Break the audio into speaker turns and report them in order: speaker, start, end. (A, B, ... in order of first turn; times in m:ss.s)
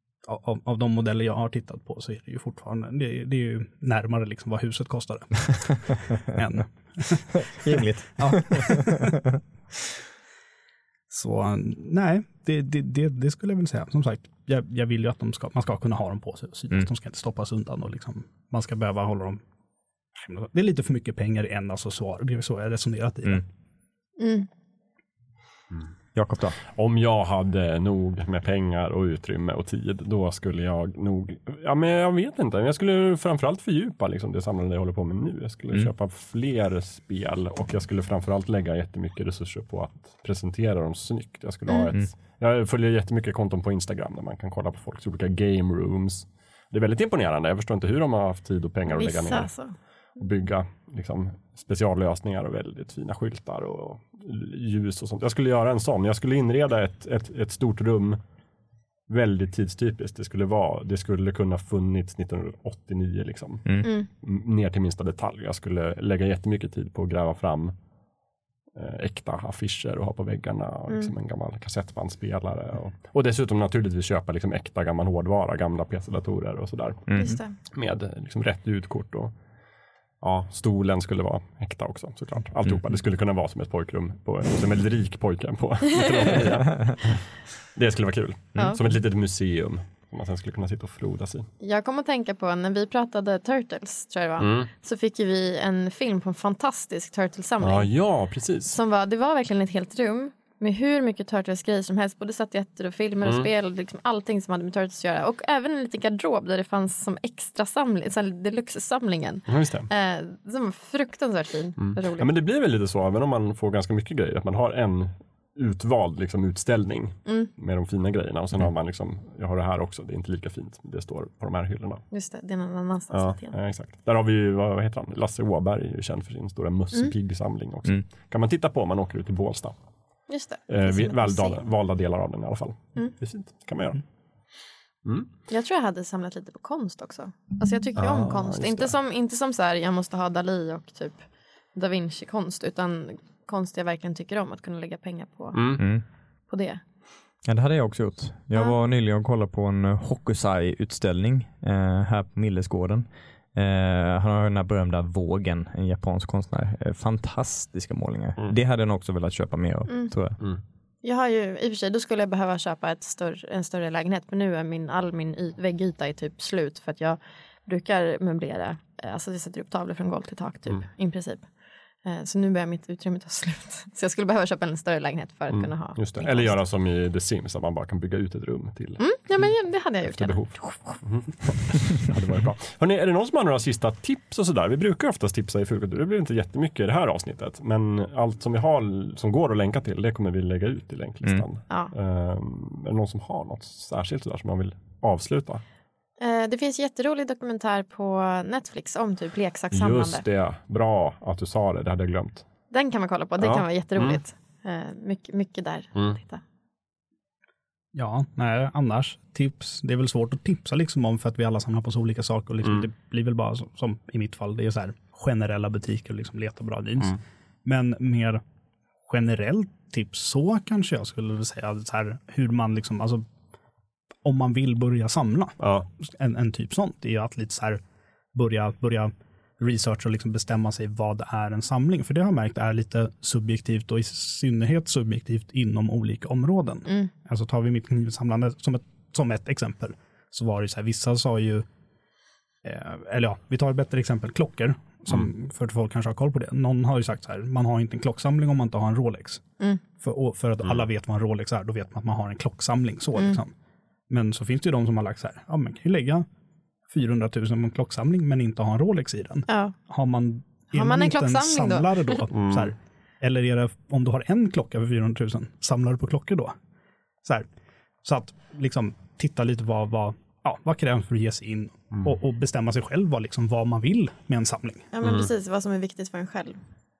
0:00.3-0:09.2 A
0:07.4-0:09.1 B
0:11.1-0:19.4 A
0:20.1-0:23.5 A
0:24.2-0:24.5 C
0:26.1-0:26.6 B
0:26.7-0:49.5 D
0:41.7-0:41.9 C
0:48.9-0:49.8 C
0:50.2-0:58.2 D
0:59.1-1:07.7 D
1:08.7-1:19.3 D
1:17.1-1:17.4 B
1:17.2-1:17.6 C
1:20.2-1:31.5 D
1:28.6-1:28.8 C
1:31.6-1:37.9 C
1:34.4-1:34.7 D
1:37.6-1:38.8 D
1:38.7-1:52.3 C
1:49.5-1:49.9 D
1:51.8-2:02.0 D
2:02.1-2:03.6 C
2:03.1-2:09.7 D
2:10.3-2:11.6 C
2:10.7-2:14.0 D
2:15.5-2:25.8 C
2:18.0-2:18.9 D
2:25.5-2:25.8 D
2:25.8-2:26.0 B
2:26.5-2:26.8 C
2:27.4-2:40.4 B
2:41.0-2:51.5 C
2:52.0-2:56.6 C
2:55.5-3:15.6 D
2:59.0-3:01.0 C
3:16.2-3:20.2 C
3:19.7-3:22.4 D
3:22.7-3:26.4 C
3:23.4-3:24.2 D
3:27.9-3:38.4 A
3:39.1-3:43.3 A
3:44.2-3:47.8 A
3:45.6-3:45.9 D
3:48.3-4:01.6 A
4:02.6-4:09.4 A
4:10.0-4:13.5 A
4:13.1-4:13.4 C
4:14.1-4:16.3 A
4:16.9-4:26.6 A
4:19.5-4:19.7 C
4:20.7-4:22.2 C
4:22.3-4:22.7 D
4:28.0-4:34.9 A
4:34.9-4:36.6 C
4:35.0-4:35.3 D